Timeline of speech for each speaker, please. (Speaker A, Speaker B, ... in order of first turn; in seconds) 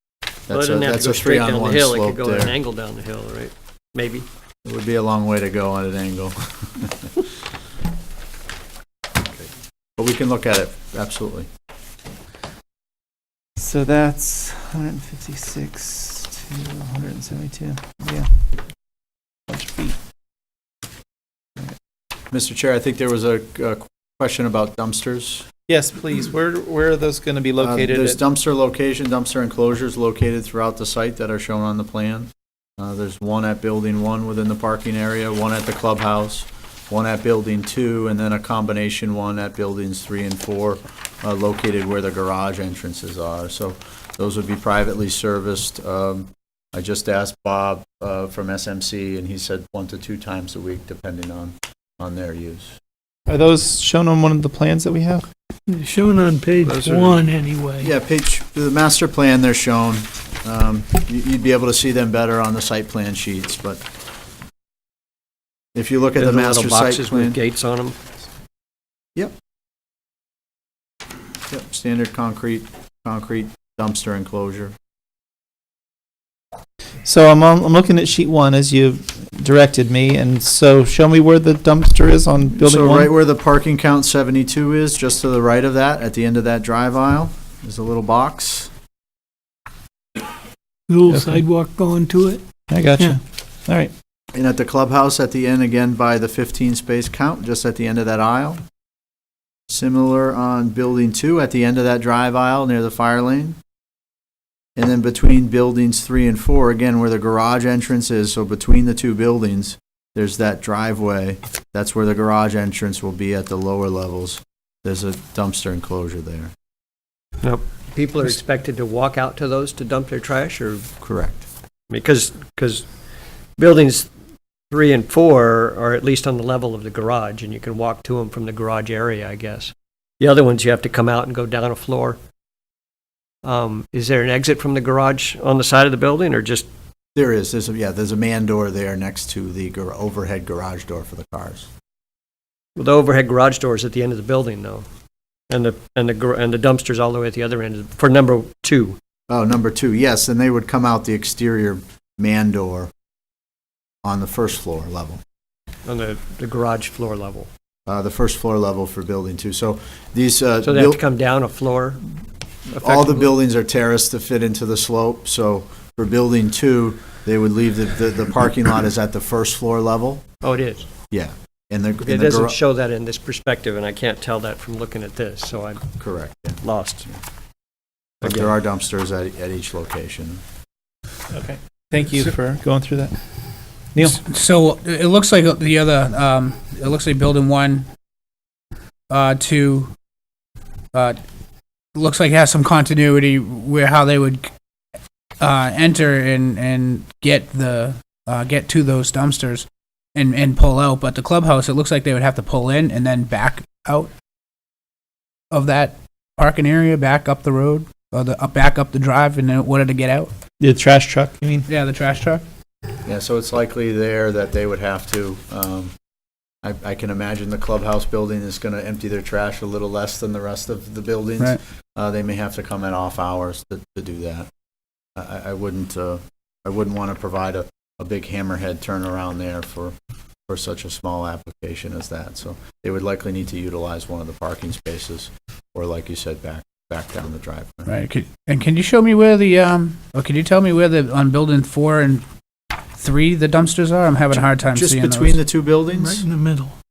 Speaker A: 0.5-2.5, 4.7-7.1, 9.4-11.5, 22.3-25.5, 27.6-52.8, 57.8-63.8, 65.8-67.4, 71.5-74.7, 82.5-88.7, 94.3-98.6, 99.7-103.6, 104.8-116.5, 121.0-121.4, 137.2-141.7, 149.3-152.9, 154.0-155.2, 157.9-161.0, 162.8-170.2, 171.1-172.6, 176.0-177.2, 178.2-180.4, 213.1-215.9, 216.6-224.5, 225.2-229.9, 230.5-238.0, 244.3-246.2
Speaker B: 0.5-4.3, 56.6-57.3, 66.2-68.0, 117.4-120.9, 121.9-122.9, 123.6-124.1, 124.7-132.2, 133.4-136.7, 142.8-144.8, 145.5-149.0, 155.9-157.5, 160.6-162.0, 162.7-163.3, 170.4-170.9, 172.0-177.1, 178.2-178.5
Speaker C: 13.6-18.3, 19.5-20.0, 25.7-28.2, 53.3-55.3, 77.0-83.1, 91.1-91.4, 92.7-93.9, 181.3-183.2, 183.9-184.2, 210.6-211.7
Speaker D: 55.7-57.9, 90.9-92.4, 246.0-246.7
Speaker E: 184.1-187.9, 189.1-189.9, 191.9-194.5, 195.4-204.1, 205.5-210.3, 211.7-212.4, 237.9-242.2, 243.0-245.4